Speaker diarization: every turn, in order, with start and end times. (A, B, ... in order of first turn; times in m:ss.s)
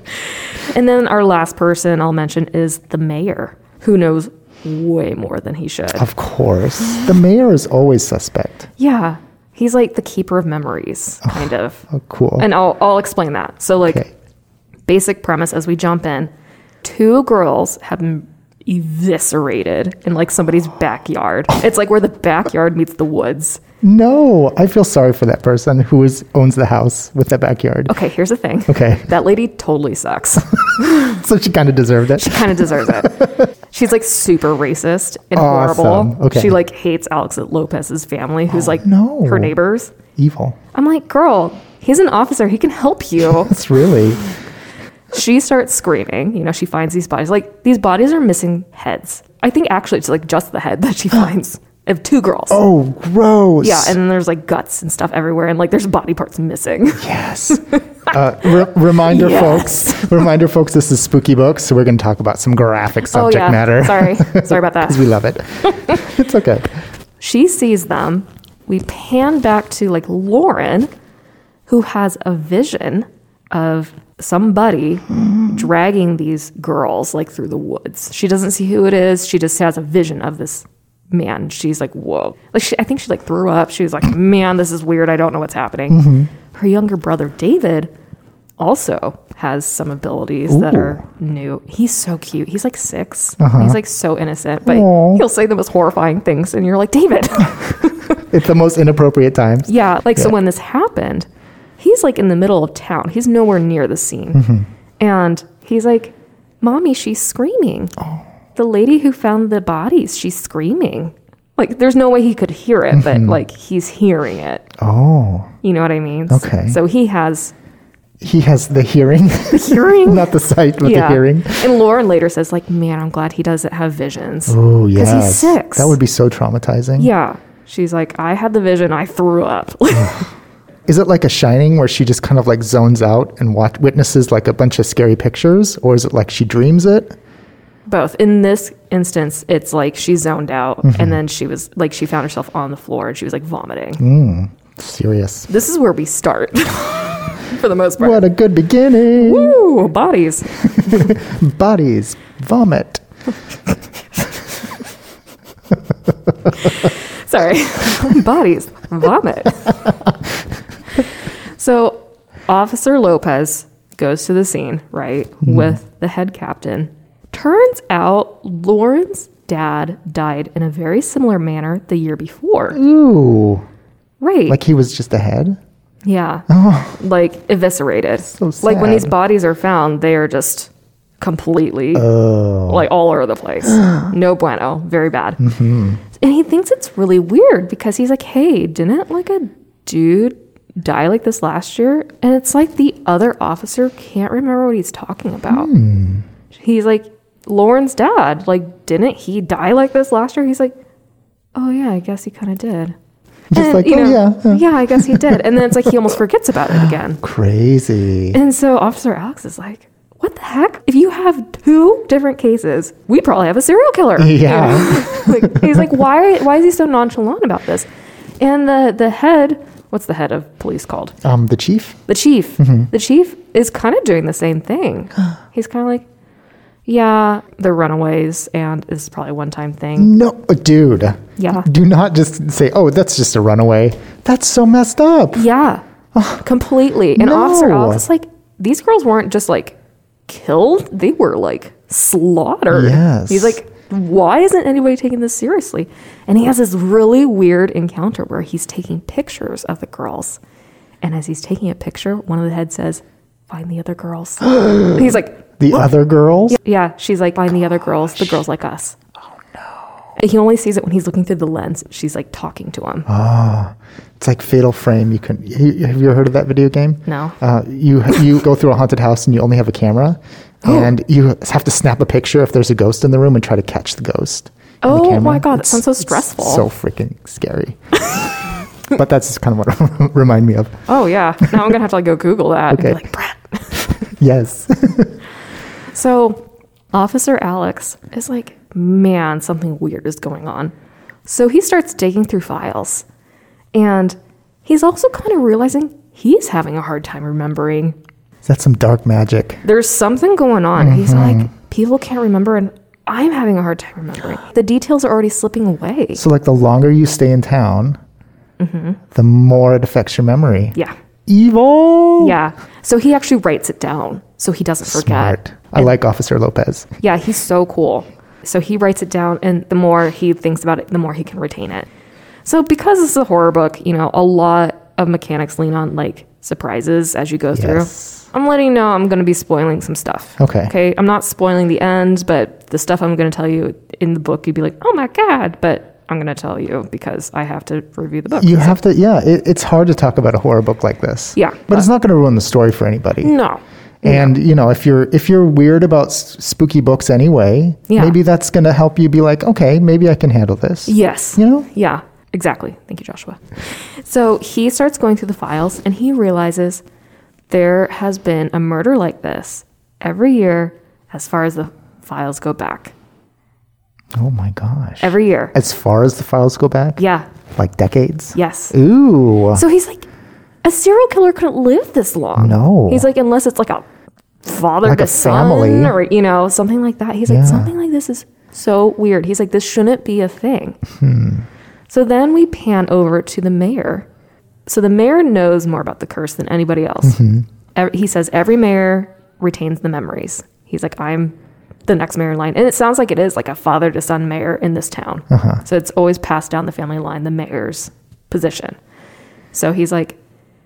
0:00.6-0:06.1 A
0:06.0-0:08.7 B
0:08.8-0:11.8 A
0:11.2-0:12.5 B
0:12.4-0:14.0 A
0:13.8-0:14.1 B
0:14.9-0:16.3 A
0:16.8-0:23.6 A
0:23.8-0:27.9 B
0:27.9-0:31.1 A
0:28.7-0:29.1 B
0:30.5-0:33.4 B
0:32.2-0:39.9 A
0:35.3-0:36.6 B
0:38.5-0:39.6 B
0:40.2-0:40.6 B
0:40.7-0:43.6 A
0:43.3-0:44.2 B
0:45.1-0:52.6 A
0:52.5-0:54.0 B
0:53.6-0:57.8 A
0:57.0-1:06.7 B
0:58.4-1:00.1 A
1:03.1-1:05.1 A
1:07.2-1:10.9 A
1:11.7-1:27.9 A
1:25.9-1:26.3 B
1:28.6-1:38.2 A
1:30.5-1:31.0 B
1:33.4-1:33.8 B
1:34.6-1:35.2 B
1:38.2-1:40.3 B
1:39.7-1:41.3 A
1:41.8-1:44.4 A
1:44.3-1:44.7 B
1:45.0-1:48.0 A
1:48.6-1:54.7 A
1:52.9-1:53.4 B
1:54.8-1:55.5 B
1:55.6-1:57.5 A
1:56.3-1:56.8 B
1:58.2-2:01.7 B
1:59.5-2:06.0 A
2:04.5-2:07.1 B
2:07.0-2:10.3 A
2:10.9-2:17.2 B
2:17.9-2:24.0 A
2:20.8-2:21.2 B
2:24.0-2:25.5 B
2:25.5-2:28.3 A
2:28.0-2:29.6 B
2:29.1-2:30.6 A
2:30.6-2:33.0 B
2:36.5-2:39.8 A
2:41.6-2:52.8 A
2:45.4-2:45.8 B
2:52.7-2:53.6 B
2:54.2-2:54.6 A
2:54.5-2:55.6 B
2:56.0-3:02.1 A
2:56.5-2:57.0 B
2:58.4-2:59.1 B
3:01.9-3:02.9 B
3:02.7-3:05.4 A
3:03.7-3:04.1 B
3:05.4-3:06.0 B
3:06.2-3:15.7 A
3:15.5-3:16.3 B
3:16.5-3:20.8 A
3:21.6-3:23.0 A
3:23.5-3:25.9 B
3:23.5-3:27.2 A
3:27.2-3:28.4 B
3:28.3-3:37.9 A
3:34.2-3:35.9 B
3:38.4-3:41.2 A
3:41.2-3:42.0 B
3:42.1-3:46.0 A
3:42.6-3:42.9 B
3:46.9-3:50.1 A
3:50.0-3:55.5 B
3:51.4-3:51.7 A
3:55.4-3:55.8 A
3:56.1-3:56.4 B
3:56.4-3:59.8 A
3:57.1-3:58.1 B
4:00.3-4:10.4 A
4:02.7-4:03.6 B
4:11.0-4:15.8 A
4:14.6-4:15.0 B
4:15.6-4:16.6 B
4:16.5-4:19.0 A
4:20.2-4:23.1 A
4:23.1-4:38.1 B
4:27.1-4:27.4 A
4:34.8-4:36.7 A
4:38.9-4:40.8 B
4:40.9-4:43.9 A
4:42.7-4:43.0 B
4:44.1-4:45.2 B
4:45.9-4:50.7 A
4:51.3-4:53.0 A
4:53.7-4:58.0 A
4:58.4-4:59.6 B
4:59.6-5:06.2 A
5:00.8-5:01.5 B
5:06.2-5:08.0 B
5:08.6-5:09.0 A
5:09.1-5:10.8 B
5:11.3-5:12.4 B
5:12.2-5:15.9 A
5:14.9-5:16.9 B
5:17.0-5:21.9 A
5:22.4-5:38.8 A
5:27.5-5:28.2 B
5:30.4-5:30.7 B
5:38.4-5:43.3 B
5:41.4-5:41.9 A
5:43.2-5:44.3 A
5:44.0-5:51.7 B
5:47.9-5:48.2 A
5:50.9-5:56.8 A
5:57.5-6:02.9 A
6:04.2-6:07.0 B
6:05.0-6:05.6 A
6:07.0-6:07.3 A
6:07.6-6:09.6 B
6:08.4-6:08.8 A
6:09.5-6:10.1 A
6:10.6-6:13.8 A
6:12.4-6:13.1 B
6:14.4-6:20.8 A
6:14.8-6:16.0 B
6:17.3-6:17.7 B
6:21.0-6:21.5 B
6:21.9-6:24.1 A
6:24.7-6:27.2 A
6:27.0-6:27.5 B
6:27.8-6:31.4 A
6:31.9-6:38.8 A
6:35.3-6:35.6 B
6:39.5-6:40.2 A